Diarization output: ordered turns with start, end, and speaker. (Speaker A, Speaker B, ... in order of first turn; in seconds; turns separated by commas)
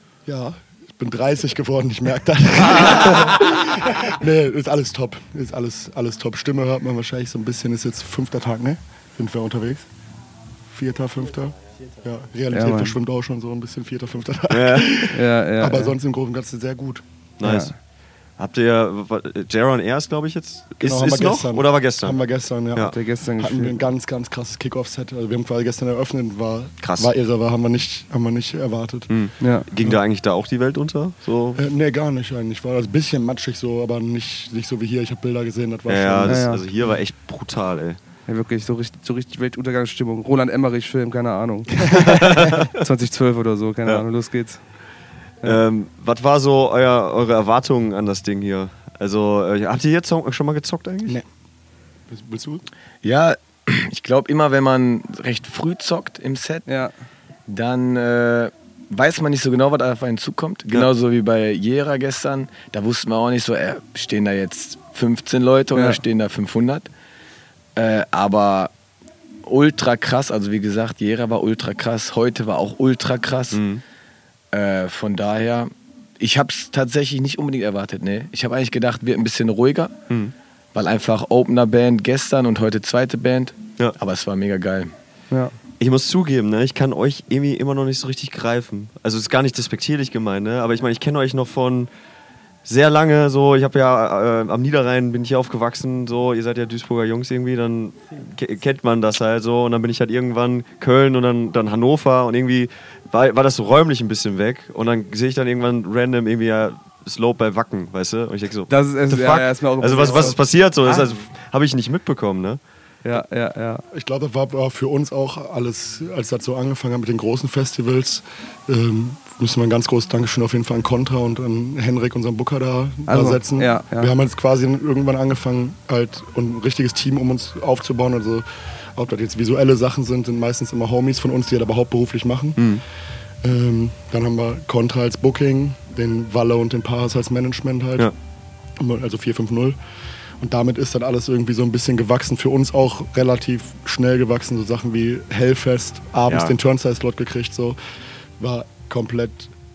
Speaker A: 0.3-9.9, Speaker B: 2.8-3.6, Speaker A: 10.7-17.1, Speaker B: 12.5-13.0, Speaker C: 14.5-15.0, Speaker B: 15.1-15.9, Speaker C: 17.4-17.8, Speaker B: 17.4-17.8, Speaker C: 18.4-22.2, Speaker A: 20.8-29.2, Speaker B: 22.8-23.8, Speaker C: 26.8-27.1, Speaker C: 29.1-31.6, Speaker B: 29.4-29.7, Speaker A: 31.6-36.5, Speaker C: 35.9-38.0, Speaker B: 36.2-36.6, Speaker B: 38.3-44.6, Speaker C: 41.9-42.6, Speaker C: 45.4-51.2, Speaker A: 52.1-52.7, Speaker D: 53.0-56.6, Speaker B: 56.7-56.9, Speaker D: 57.5-66.9, Speaker B: 65.7-66.0, Speaker D: 67.8-68.7, Speaker D: 69.5-73.6, Speaker C: 73.5-73.8, Speaker D: 74.5-80.0, Speaker D: 80.7-84.9, Speaker C: 85.8-91.9, Speaker C: 92.7-112.6, Speaker B: 108.7-111.1, Speaker B: 113.0-113.8, Speaker A: 113.9-132.7, Speaker B: 123.1-124.1, Speaker C: 132.6-132.8, Speaker A: 133.4-138.1, Speaker A: 138.8-139.8, Speaker A: 140.4-147.8, Speaker C: 146.3-146.5, Speaker A: 148.4-149.5